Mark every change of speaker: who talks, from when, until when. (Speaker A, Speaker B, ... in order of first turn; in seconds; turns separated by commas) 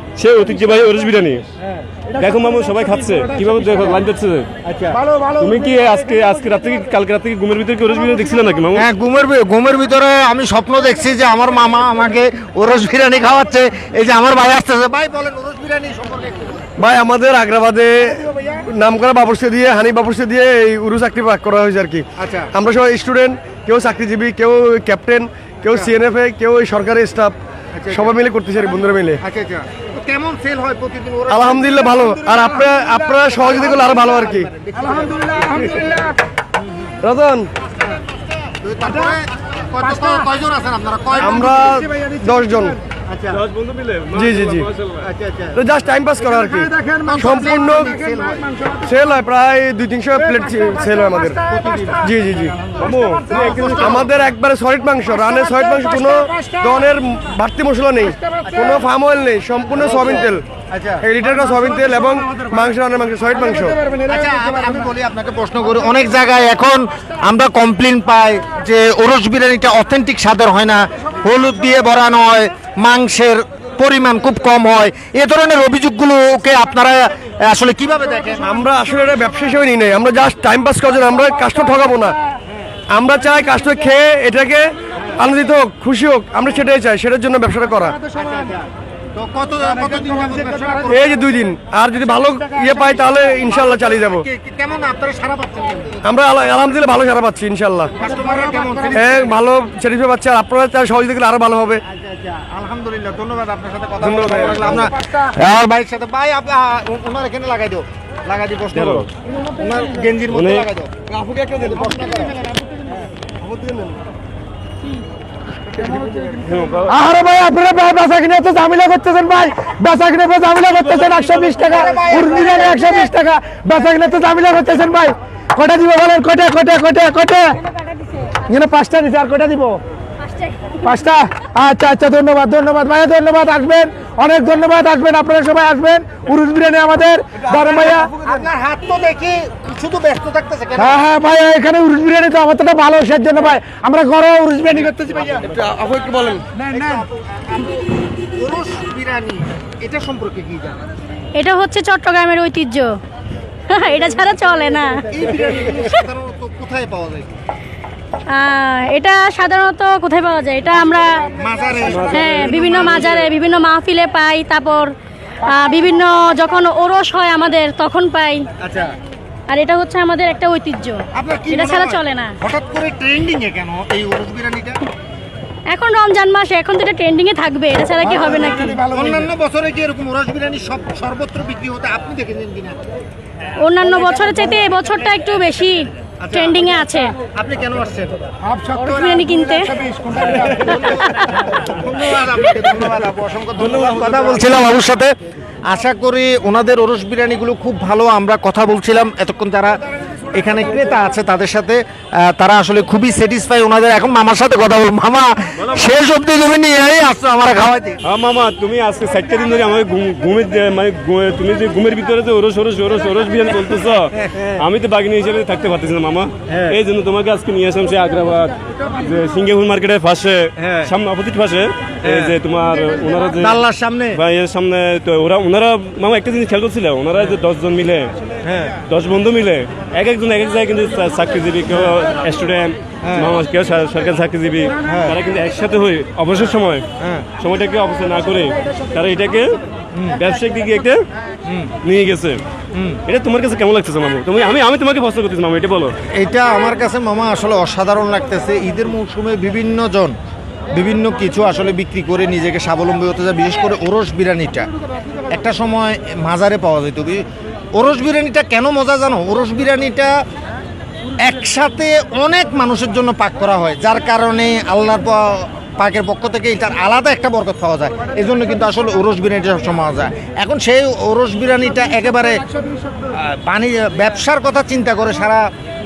Speaker A: 0.2-1.4, Speaker A: 2.2-4.5, Speaker B: 2.2-3.9, Speaker C: 4.7-5.0, Speaker B: 5.0-6.3, Speaker A: 5.4-8.9, Speaker C: 8.7-16.7, Speaker D: 16.8-27.4, Speaker C: 22.2-22.5, Speaker C: 27.8-28.1, Speaker D: 27.9-29.2, Speaker C: 29.2-32.5, Speaker D: 31.3-34.5, Speaker C: 33.2-35.9, Speaker B: 34.9-36.1, Speaker D: 37.0-37.5, Speaker C: 37.8-41.7, Speaker D: 41.2-42.8, Speaker B: 41.4-42.3, Speaker C: 43.1-43.4, Speaker A: 43.3-45.0, Speaker D: 44.1-44.7, Speaker C: 45.0-45.6, Speaker D: 45.5-47.9, Speaker B: 46.5-48.9, Speaker C: 47.0-48.4, Speaker D: 48.8-51.4, Speaker B: 50.2-51.7, Speaker C: 51.5-52.1, Speaker D: 52.0-52.6, Speaker B: 52.7-53.7, Speaker A: 52.8-53.8, Speaker C: 53.3-54.1, Speaker D: 53.8-60.5, Speaker B: 55.3-56.7, Speaker B: 58.2-58.6, Speaker C: 58.5-58.9, Speaker C: 59.8-61.0, Speaker D: 61.0-63.8, Speaker B: 63.8-64.1, Speaker C: 64.0-78.5, Speaker D: 78.4-82.2, Speaker D: 82.9-88.0, Speaker C: 88.1-88.6, Speaker C: 89.1-91.2, Speaker D: 90.9-94.2, Speaker C: 93.5-96.1, Speaker D: 96.0-98.0, Speaker C: 98.0-99.3, Speaker D: 98.9-101.8, Speaker C: 101.9-110.9, Speaker D: 104.0-104.9, Speaker A: 108.7-109.1, Speaker A: 110.3-110.7, Speaker D: 111.1-111.9, Speaker C: 111.6-112.4, Speaker D: 113.4-114.0, Speaker D: 115.8-116.2, Speaker A: 116.5-116.9, Speaker B: 116.9-127.6, Speaker C: 121.7-123.0, Speaker B: 128.4-129.8, Speaker E: 130.2-130.9, Speaker B: 130.8-138.1, Speaker C: 137.6-141.0, Speaker B: 140.8-145.5, Speaker D: 145.4-146.5, Speaker C: 146.7-150.9, Speaker E: 151.4-152.9, Speaker E: 153.7-155.0, Speaker C: 155.1-157.3, Speaker E: 158.3-161.1, Speaker C: 161.3-163.2, Speaker A: 161.9-163.2, Speaker E: 162.0-164.9, Speaker E: 165.4-168.5, Speaker C: 168.6-168.9, Speaker E: 169.5-172.3, Speaker C: 171.1-174.8, Speaker E: 175.7-178.8, Speaker B: 178.4-179.2, Speaker C: 178.9-182.8, Speaker E: 183.6-187.1, Speaker C: 186.2-188.2, Speaker B: 188.5-190.6, Speaker E: 188.8-189.8, Speaker C: 190.3-195.2, Speaker A: 193.8-194.3, Speaker C: 195.7-199.7, Speaker C: 200.3-208.0, Speaker A: 205.6-205.9, Speaker A: 208.0-223.6, Speaker C: 214.2-214.6, Speaker C: 216.5-216.8, Speaker C: 220.6-220.9, Speaker C: 222.0-222.4, Speaker C: 223.4-224.2, Speaker A: 224.1-228.1, Speaker C: 228.4-228.8, Speaker A: 228.9-236.8, Speaker C: 233.0-233.3, Speaker C: 234.8-235.2, Speaker C: 237.0-237.3, Speaker A: 237.4-239.6, Speaker A: 240.1-241.0, Speaker A: 241.8-242.4, Speaker A: 243.1-245.9, Speaker C: 246.1-250.2, Speaker C: 250.7-254.7, Speaker C: 255.3-260.1, Speaker C: 261.2-272.4, Speaker C: 273.1-275.5